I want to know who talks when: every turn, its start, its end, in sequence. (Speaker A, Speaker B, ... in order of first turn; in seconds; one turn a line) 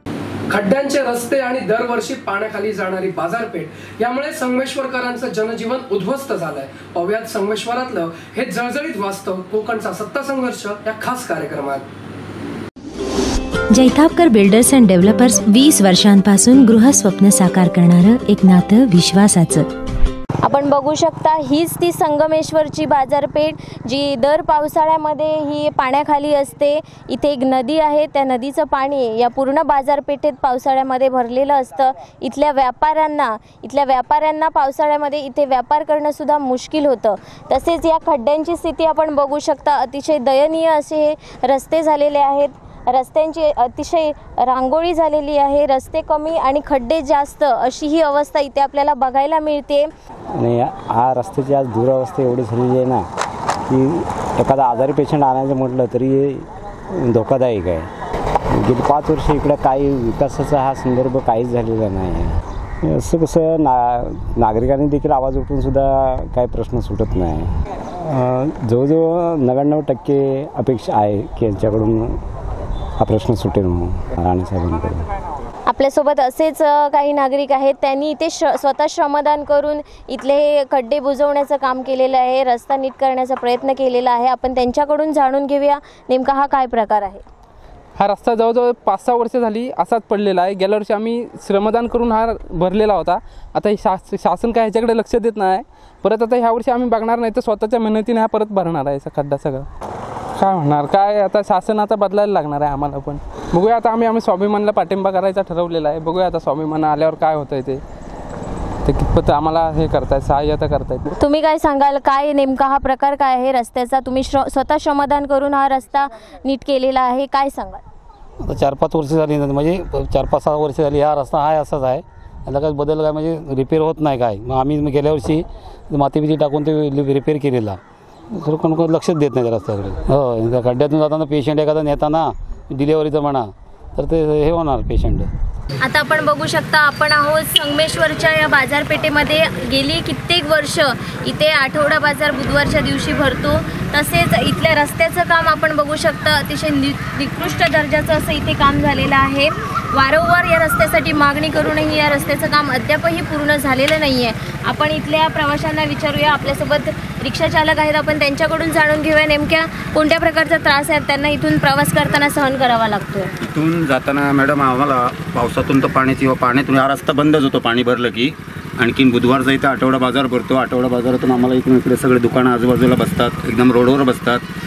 Speaker A: 0.5-11.9
Speaker B: 13.7-19.7
Speaker C: 20.4-49.9
Speaker D: 50.4-53.0
Speaker D: 53.7-57.9
Speaker D: 58.5-67.5
Speaker D: 68.0-72.2
Speaker D: 73.0-75.1
Speaker C: 75.7-87.2
Speaker E: 88.0-99.7
Speaker E: 100.4-107.8
Speaker E: 108.9-111.1
Speaker C: 111.2-117.8
Speaker F: 118.4-127.8
Speaker F: 128.3-135.3
Speaker C: 135.8-163.3
Speaker G: 163.4-174.4